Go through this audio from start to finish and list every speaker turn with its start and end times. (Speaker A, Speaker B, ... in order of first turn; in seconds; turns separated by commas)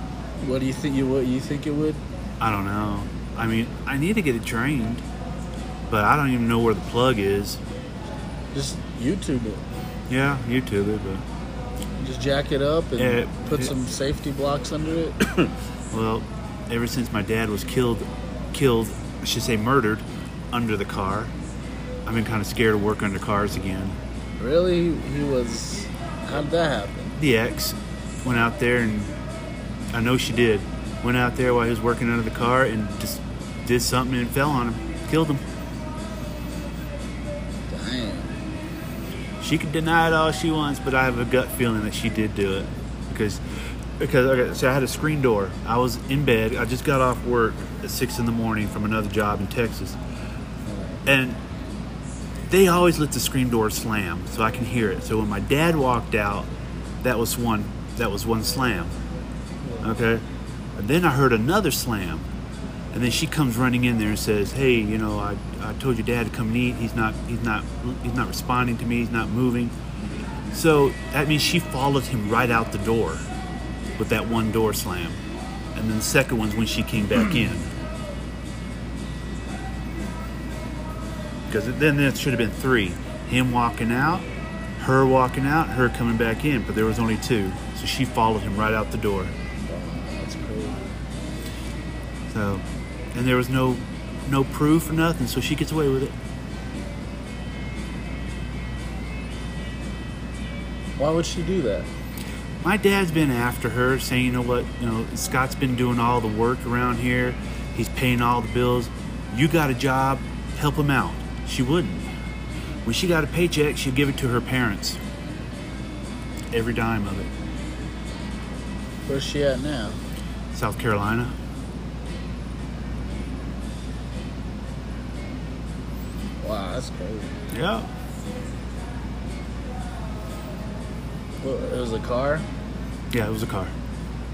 Speaker A: 0.4-2.0, Speaker B: 2.4-5.0, Speaker B: 5.9-7.6, Speaker A: 8.5-9.6, Speaker B: 10.1-11.2, Speaker A: 12.0-15.2, Speaker B: 13.0-13.7, Speaker B: 15.3-21.3, Speaker B: 22.0-24.0, Speaker A: 24.4-27.2, Speaker B: 27.2-29.1, Speaker B: 29.9-35.4, Speaker A: 37.7-38.4, Speaker B: 39.4-43.4, Speaker B: 44.0-50.0, Speaker A: 50.6-51.0, Speaker B: 51.0-51.4, Speaker B: 52.5-56.5, Speaker B: 57.0-58.9, Speaker A: 59.6-60.0, Speaker B: 59.8-60.2, Speaker B: 60.8-62.2, Speaker B: 62.9-69.7, Speaker B: 70.5-73.2, Speaker B: 74.0-75.2, Speaker B: 75.7-77.7, Speaker B: 81.5-84.3, Speaker B: 84.8-89.3, Speaker A: 89.7-90.8, Speaker B: 92.3-92.6, Speaker B: 93.1-96.1, Speaker A: 101.0-101.9, Speaker B: 102.6-112.1, Speaker B: 112.8-115.0, Speaker B: 116.5-117.3, Speaker A: 119.1-120.0, Speaker B: 120.5-121.3, Speaker A: 126.4-127.3, Speaker B: 127.5-127.9, Speaker A: 131.4-132.5, Speaker B: 133.1-133.7